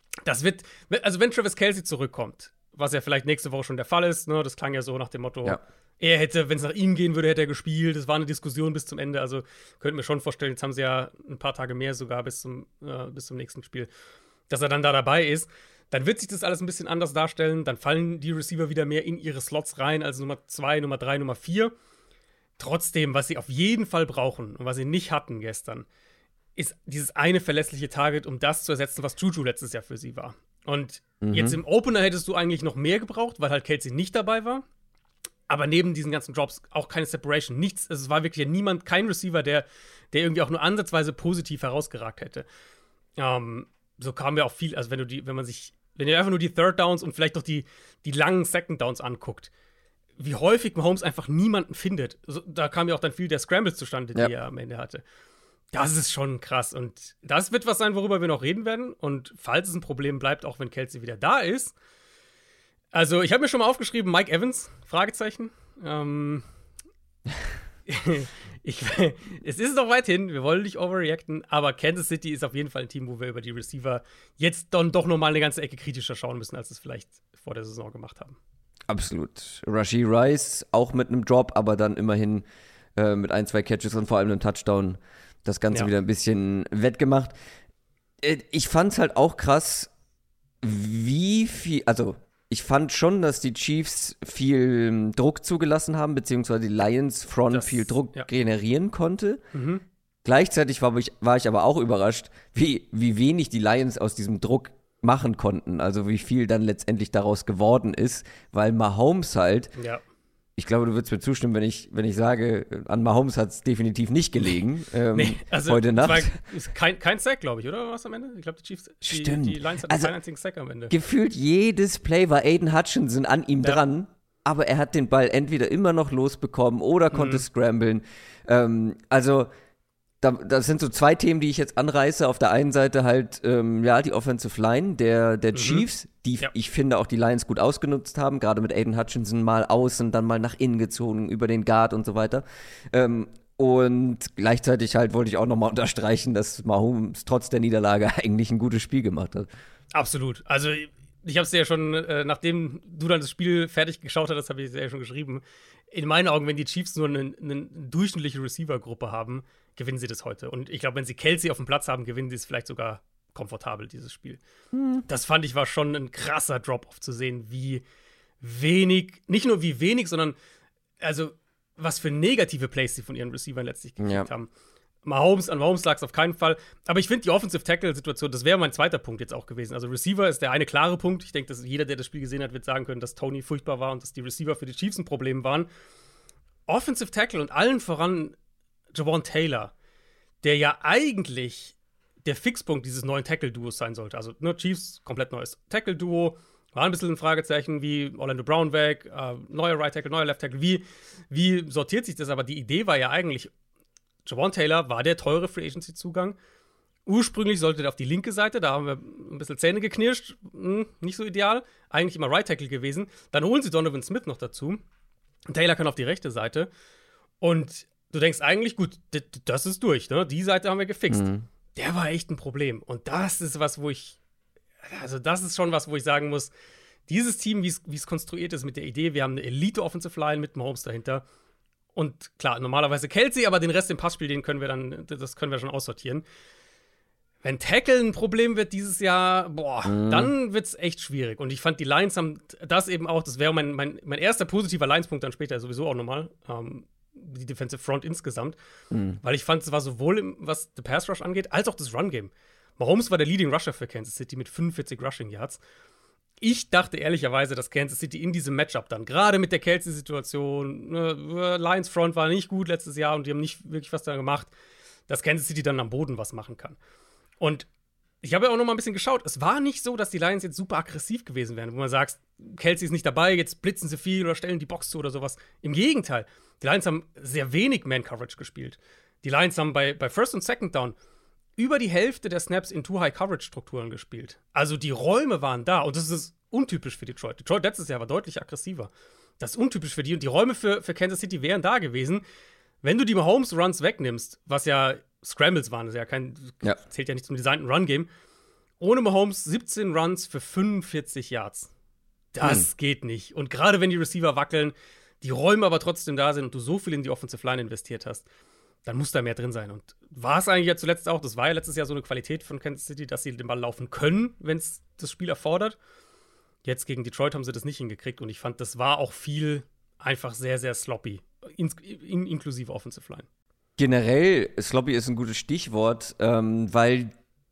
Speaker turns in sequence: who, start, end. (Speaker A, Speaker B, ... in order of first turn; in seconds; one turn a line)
Speaker A: 0.2-13.9
Speaker A: 14.5-21.7
Speaker A: 22.6-25.9
Speaker A: 26.6-34.6
Speaker B: 31.2-31.6
Speaker A: 35.5-42.4
Speaker A: 43.2-49.5
Speaker A: 50.2-55.0
Speaker A: 55.7-61.7
Speaker A: 62.9-66.4
Speaker A: 67.9-78.4
Speaker B: 78.9-82.4
Speaker B: 83.0-87.3
Speaker B: 88.2-89.9
Speaker B: 90.6-99.4
Speaker A: 97.5-98.3
Speaker A: 99.5-99.8
Speaker B: 100.2-109.7
Speaker A: 109.8-110.0
Speaker B: 110.6-116.3
Speaker A: 115.1-120.9
Speaker B: 119.0-120.1
Speaker B: 120.9-129.5
Speaker A: 127.1-127.4
Speaker B: 130.2-149.5
Speaker A: 135.5-135.8
Speaker A: 149.9-164.4
Speaker B: 164.7-165.0
Speaker A: 165.1-167.8
Speaker A: 168.4-170.3
Speaker A: 171.0-174.5
Speaker B: 174.0-174.3
Speaker A: 175.0-185.7
Speaker A: 186.7-188.3
Speaker A: 188.9-189.7
Speaker A: 190.4-203.5
Speaker A: 204.2-206.4
Speaker A: 207.1-214.8
Speaker A: 215.5-216.7
Speaker A: 217.4-224.2
Speaker B: 221.1-221.5
Speaker A: 224.8-226.5
Speaker A: 227.1-231.2
Speaker A: 231.9-236.2
Speaker A: 237.4-248.6
Speaker B: 239.8-240.3
Speaker B: 248.9-249.2
Speaker A: 249.2-255.6
Speaker A: 256.4-264.5
Speaker A: 265.1-266.8
Speaker A: 267.4-267.7
Speaker A: 268.2-280.9
Speaker A: 281.6-292.2
Speaker A: 292.8-298.1
Speaker A: 298.8-301.7
Speaker A: 302.3-308.2
Speaker B: 302.4-302.7
Speaker A: 308.9-315.8
Speaker A: 316.6-323.3
Speaker B: 323.8-327.1